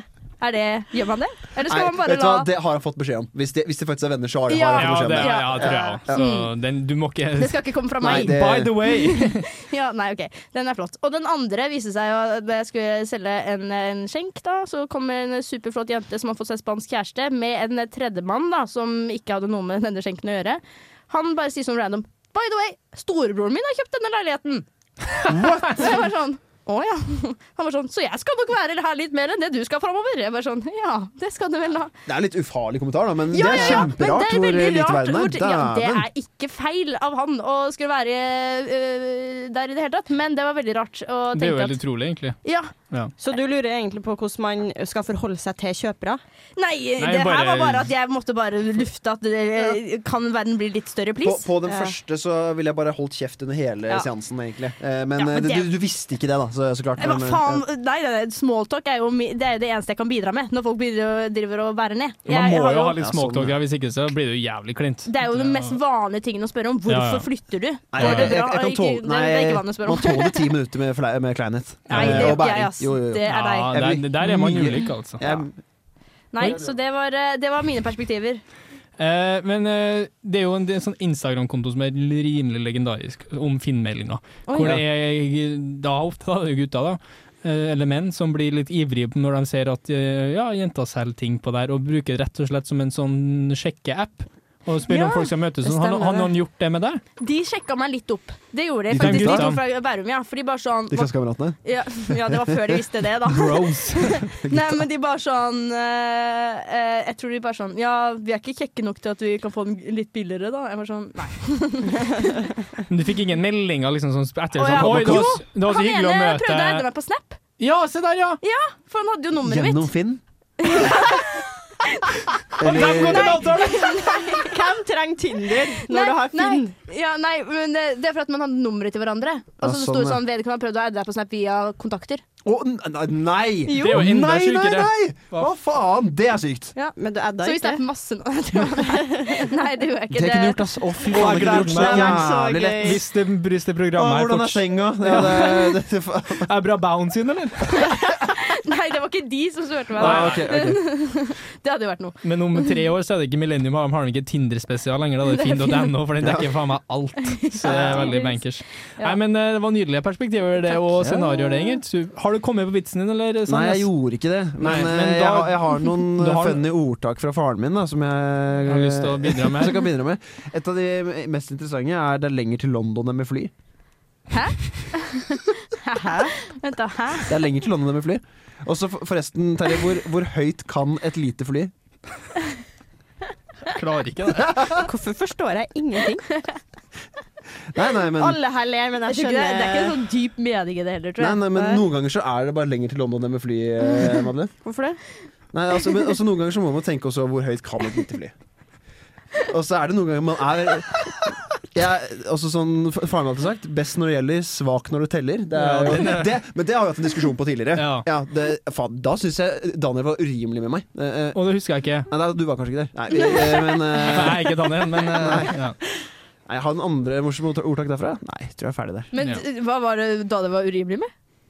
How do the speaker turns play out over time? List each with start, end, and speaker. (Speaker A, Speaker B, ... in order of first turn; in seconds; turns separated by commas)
Speaker A: 0.4-2.5, Speaker B: 1.7-6.2, Speaker A: 4.5-6.5, Speaker C: 4.8-9.4, Speaker A: 7.4-31.9, Speaker B: 8.0-8.7, Speaker B: 25.3-25.8, Speaker C: 25.3-25.6, Speaker B: 32.0-36.1, Speaker A: 33.3-41.8, Speaker D: 33.5-33.8, Speaker C: 41.3-42.4, Speaker A: 42.4-42.7, Speaker D: 43.2-46.2, Speaker A: 46.5-51.5, Speaker C: 47.0-47.9, Speaker B: 51.2-57.6, Speaker D: 51.6-52.0, Speaker A: 55.2-55.6, Speaker A: 57.0-63.0, Speaker B: 62.3-63.6, Speaker C: 62.3-65.8, Speaker A: 65.0-70.5, Speaker C: 66.9-67.3, Speaker B: 67.9-75.5, Speaker C: 68.0-68.3, Speaker C: 71.9-72.5, Speaker A: 71.9-73.8, Speaker C: 73.2-75.2, Speaker A: 76.3-78.4, Speaker B: 76.4-76.7, Speaker C: 79.0-97.0, Speaker A: 84.5-84.8, Speaker A: 94.9-96.3, Speaker A: 97.2-101.1, Speaker B: 98.9-99.5, Speaker C: 98.9-99.6, Speaker B: 100.9-102.8, Speaker A: 101.6-112.5, Speaker C: 103.3-104.3, Speaker B: 104.4-104.8, Speaker C: 112.9-116.8, Speaker A: 114.5-117.4, Speaker B: 114.6-115.4, Speaker C: 117.6-118.4, Speaker A: 118.4-119.9, Speaker B: 119.4-120.2, Speaker A: 120.6-122.1, Speaker C: 122.5-124.2, Speaker B: 122.6-123.4, Speaker A: 122.7-124.6, Speaker D: 124.3-126.7, Speaker A: 125.8-132.2, Speaker B: 129.6-130.2, Speaker B: 132.4-136.7, Speaker C: 133.7-135.5, Speaker A: 136.8-140.7, Speaker D: 137.0-137.8, Speaker D: 138.8-139.5, Speaker B: 140.1-143.0, Speaker C: 141.0-145.8, Speaker D: 141.2-143.0, Speaker B: 143.9-146.5, Speaker C: 146.4-147.9, Speaker A: 148.0-152.7, Speaker C: 150.0-150.8, Speaker B: 150.0-150.8, Speaker C: 152.2-163.9, Speaker A: 155.2-155.9, Speaker B: 156.2-156.5, Speaker A: 157.5-159.2, Speaker B: 157.6-158.1, Speaker B: 161.0-161.4, Speaker B: 163.5-173.5, Speaker C: 164.6-166.6, Speaker C: 168.7-169.8, Speaker A: 174.3-177.3, Speaker D: 175.9-176.3, Speaker B: 177.2-181.7, Speaker C: 183.7-184.6, Speaker B: 184.4-184.8, Speaker D: 184.7-186.4, Speaker B: 187.7-188.4, Speaker D: 188.2-190.0, Speaker A: 189.1-191.4, Speaker B: 191.2-194.5, Speaker D: 191.5-191.8, Speaker D: 194.6-195.0, Speaker B: 195.5-198.3, Speaker B: 199.5-201.2, Speaker B: 201.7-211.4, Speaker C: 205.5-206.3, Speaker C: 207.7-208.1, Speaker C: 211.3-212.1, Speaker B: 212.1-215.6, Speaker A: 213.1-214.1, Speaker C: 214.0-215.8, Speaker B: 216.5-219.1, Speaker A: 219.1-221.1